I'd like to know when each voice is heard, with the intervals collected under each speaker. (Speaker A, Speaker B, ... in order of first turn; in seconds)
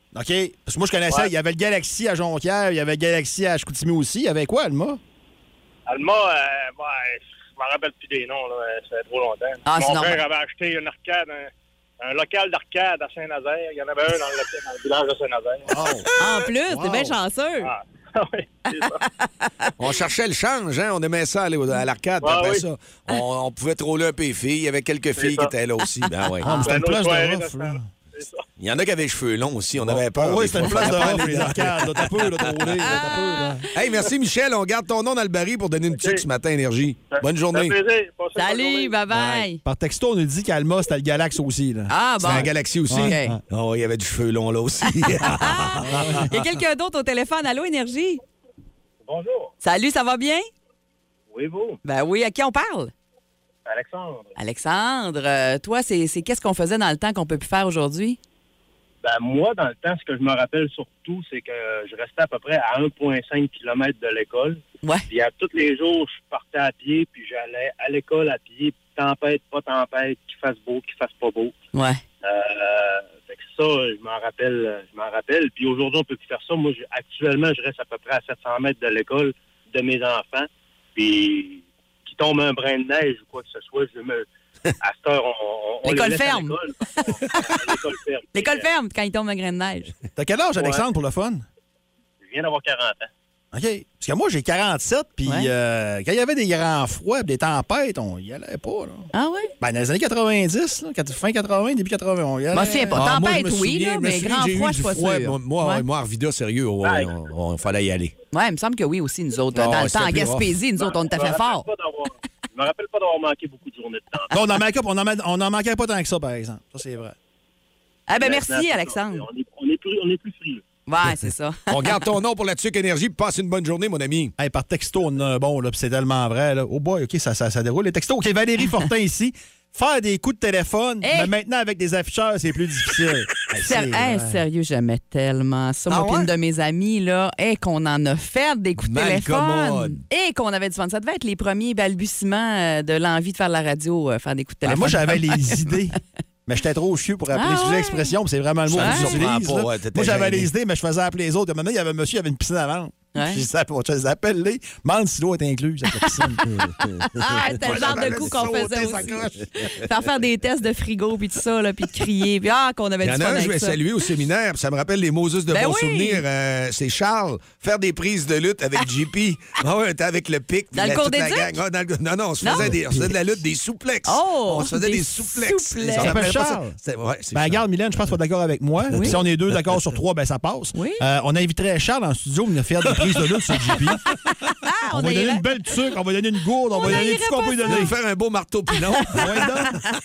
Speaker A: 0.1-5.0, 15.7-16.1, 16.7-17.2, 26.4-27.9, 29.8-33.6, 39.6-41.9, 42.9-43.4, 45.9-46.2, 90.2-91.5, 93.5-103.0, 114.3-117.2, 124.4-134.4, 144.6-156.5, 157.2-159.4, 172.6-173.1, 175.9-176.8, 177.3-184.0, 184.9-187.9, 189.1-189.8
Speaker B: 5.9-11.5, 12.0-15.7, 17.6-19.0, 22.2-22.6, 25.2-25.5, 26.6-28.4, 36.0-36.2, 37.1-39.0, 49.0-49.5, 51.3-51.8, 53.7-54.3, 59.0-71.5, 72.2-84.3, 84.8-88.7, 90.6-90.8, 92.2-93.1, 106.8-107.1, 110.8-114.3, 118.2-120.6
Speaker C: 9.7-10.2, 16.2-17.7, 19.0-19.7, 26.4-26.7, 30.7-31.3, 32.8-33.7, 38.4-39.6, 41.9-43.4, 45.0-48.2, 49.6-50.5, 51.8-52.9, 54.4-58.2, 71.7-72.0, 85.8-87.4, 88.3-89.9, 95.3-95.5, 99.1-99.5, 102.5-105.8, 108.3-111.7, 118.1-119.2, 120.9-122.0, 131.0-131.3, 133.6-145.7, 147.3-148.1, 148.8-149.2, 153.2-153.4, 155.9-163.8, 165.5-166.2, 170.8-171.5, 172.4-172.8, 174.1-176.3, 178.9-179.2, 180.8-181.0, 184.3-185.4, 186.8-187.9, 189.1-189.9
Speaker D: 19.8-26.6, 28.6-32.5, 33.7-37.8, 39.2-39.4, 42.2-46.2, 102.9-108.1, 109.5-110.5, 121.7-124.3, 135.9-136.3, 138.8-140.0, 148.7-150.5, 156.6-159.4, 163.0-177.6, 187.6-189.8